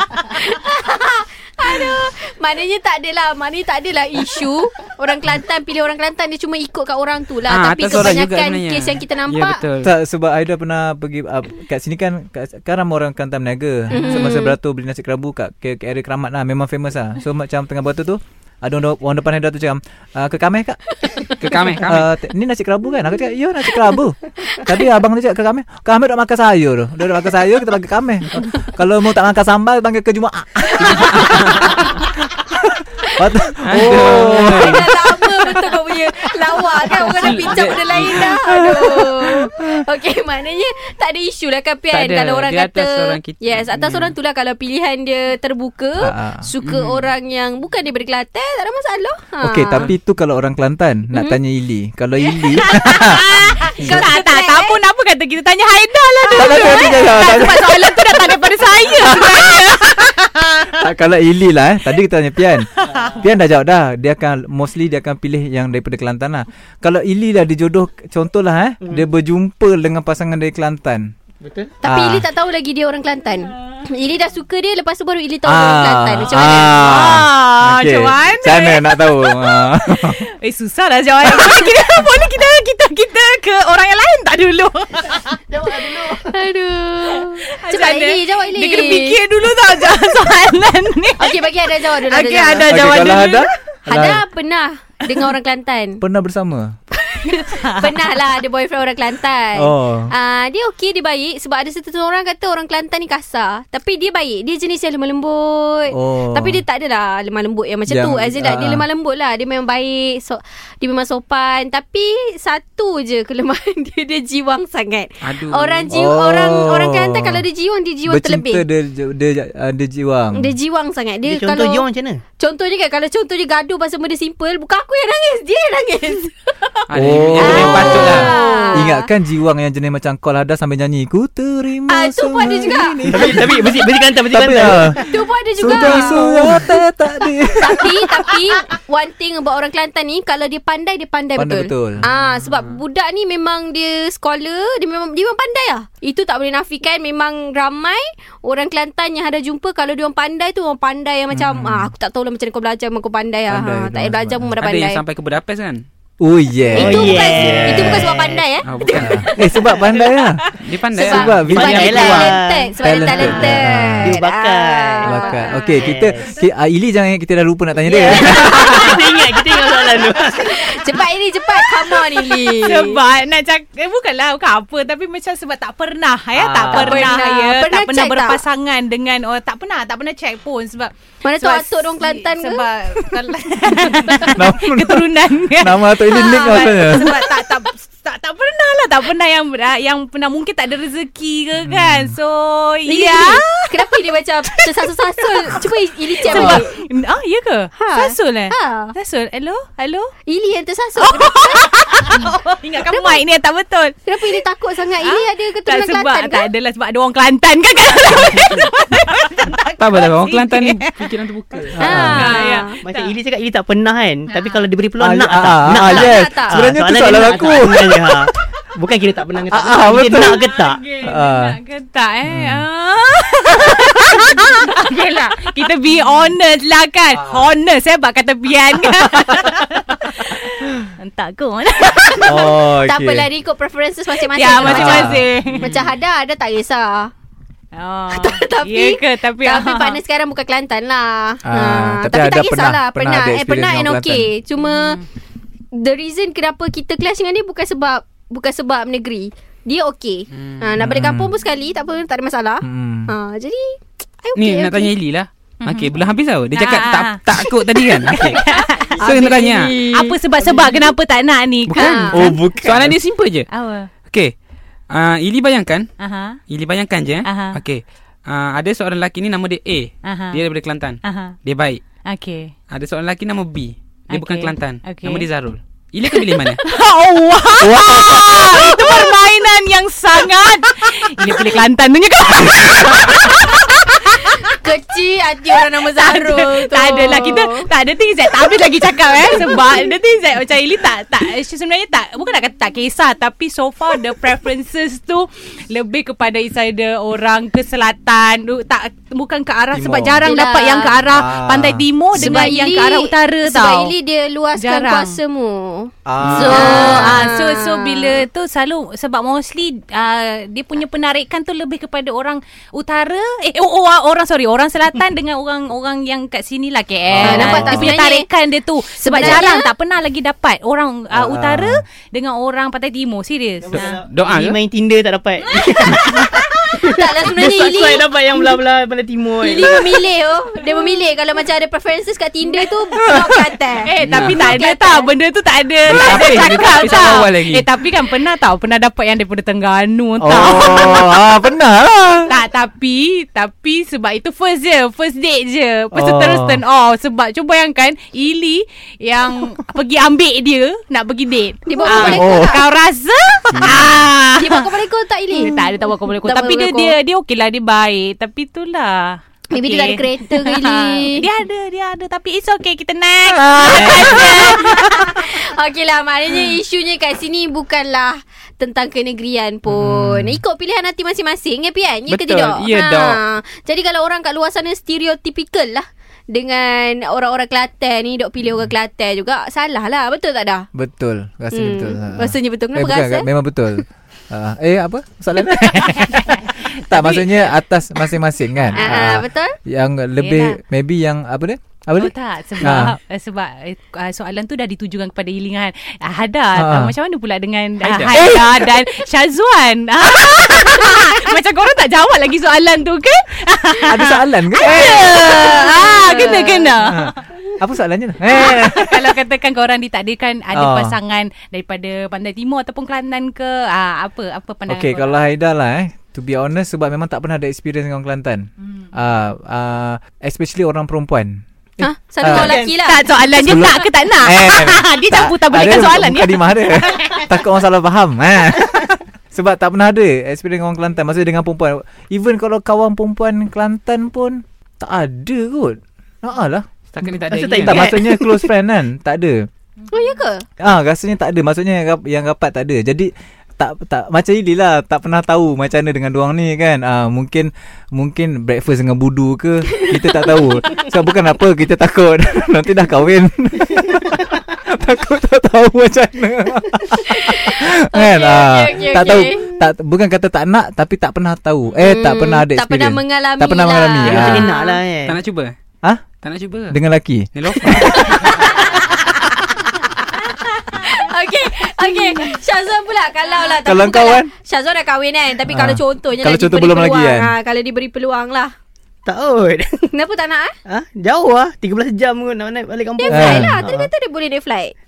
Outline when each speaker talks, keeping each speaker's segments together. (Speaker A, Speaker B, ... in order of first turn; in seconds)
Speaker A: 0.3-9.6, 13.9-14.6, 30.9-31.3, 33.7-49.9, 52.6-54.8, 56.4-57.1, 71.8-77.0, 85.9-89.2, 91.2-93.3, 93.9-96.0, 96.9-118.6, 120.3-121.8, 122.4-126.7, 127.4-129.1, 131.9-133.4, 134.9-136.6, 137.6-155.0, 156.7-160.0, 160.9-165.5, 167.9-169.0, 169.7-173.0, 176.7-178.4, 181.2-182.6, 186.1-187.0, 192.9-196.8, 197.8-198.9, 200.3-202.2, 202.8-203.2, 204.1-206.5, 211.8-212.8, 215.7-216.6, 232.1-237.1, 238.1-245.0, 245.7-254.9, 259.0-260.6, 261.7-262.4, 284.1-287.7, 289.2-289.8, 300.2-301.0, 302.1-308.2, 317.2-318.3, 318.9-319.7, 326.8-328.5, 329.4-335.1, 351.7-352.6, 354.4-355.7, 356.2-356.9, 359.5-361.2, 363.6-380.6, 381.5-383.3, 388.7-389.6, 406.0-406.7, 421.8-423.0, 439.9-440.4, 449.8-450.8, 457.1-459.5, 461.8-464.8, 467.7-469.6, 470.1-478.5, 479.9-480.5, 483.0-484.7
Speaker B: 7.5-9.9, 21.4-22.1, 30.9-31.8, 33.6-34.9, 37.2-38.3, 41.9-44.1, 46.6-47.1, 115.2-115.9, 126.9-128.3, 154.6-155.8, 158.6-159.3, 160.6-162.4, 209.8-211.8, 250.3-250.7, 254.3-258.4, 259.0-259.7, 261.7-263.5, 264.1-264.3, 264.9-265.9, 266.5-271.8, 272.7-276.6, 306.2-306.5, 323.7-324.6, 334.0-334.4, 335.9-337.6, 353.5-354.0, 372.1-373.2, 397.8-398.2, 436.9-438.0, 465.1-465.5, 466.2-466.8, 467.3-468.7
Speaker C: 7.9-8.2, 9.8-20.8, 21.8-31.9, 32.6-35.5, 38.1-39.8, 46.0-46.5, 49.4-53.2, 56.3-58.4, 58.9-59.6, 60.7-71.1, 71.8-72.2, 75.4-80.2, 92.7-94.2, 96.0-96.8, 99.5-100.1, 105.9-106.6, 107.9-108.8, 115.9-117.4, 118.1-120.5, 126.9-135.0, 135.6-138.3, 141.3-142.1, 151.3-151.9, 153.5-154.5, 156.2-158.1, 158.9-160.4, 161.0-162.1, 162.8-164.2, 165.0-169.0, 176.3-177.1, 183.9-187.3, 191.6-192.2, 196.3-196.6, 211.8-212.4, 215.0-218.3, 219.5-220.5, 221.0-221.6, 222.3-222.6, 227.1-227.5, 228.8-229.6, 232.1-233.3, 234.6-235.3, 241.4-244.3, 250.8-251.3, 252.6-253.1, 262.1-262.9, 277.6-279.1, 299.7-300.3, 301.0-302.4, 306.1-307.2, 317.1-317.9, 321.1-321.8, 340.2-342.3, 345.9-346.6, 351.8-352.6, 363.4-364.0, 369.7-370.4, 380.7-393.0, 396.5-396.9, 398.1-398.7, 403.8-409.2, 410.5-410.9, 414.7-422.6, 423.4-436.7, 437.6-439.5, 440.6-464.5, 466.7-468.1, 473.6-474.3, 475.5-477.3, 483.1-483.6
Speaker D: 52.4-60.9, 62.8-63.2, 76.8-85.4, 87.2-93.5, 97.3-98.0, 128.1-128.8, 165.3-165.8, 171.8-200.1, 201.0-204.4, 205.0-211.1, 211.8-213.1, 214.3-214.6, 220.5-232.4, 234.2-235.7, 237.7-240.0, 244.6-245.0, 255.6-256.0, 256.5-259.0, 259.9-262.1, 263.5-263.9, 266.0-266.4, 267.2-267.6, 270.0-270.4, 271.0-271.4, 272.0-272.5, 274.1-275.3, 276.1-284.6, 285.5-303.9, 304.6-305.2, 306.3-324.0, 325.6-326.4, 333.8-341.2, 342.3-354.7, 355.3-365.4, 386.0-387.3, 388.7-389.1, 390.2-390.6, 392.0-407.1, 408.3-415.1, 422.8-427.3, 471.8-472.2
Speaker E: 62.8-63.3, 71.4-71.7, 85.5-86.3, 121.2-122.2, 133.1-135.0, 156.7-158.4, 161.5-162.7, 163.3-166.3, 167.9-170.9, 212.8-220.8, 323.6-330.0, 422.2-422.8, 437.3-438.4, 464.0-465.2, 479.1-479.9, 480.7-483.9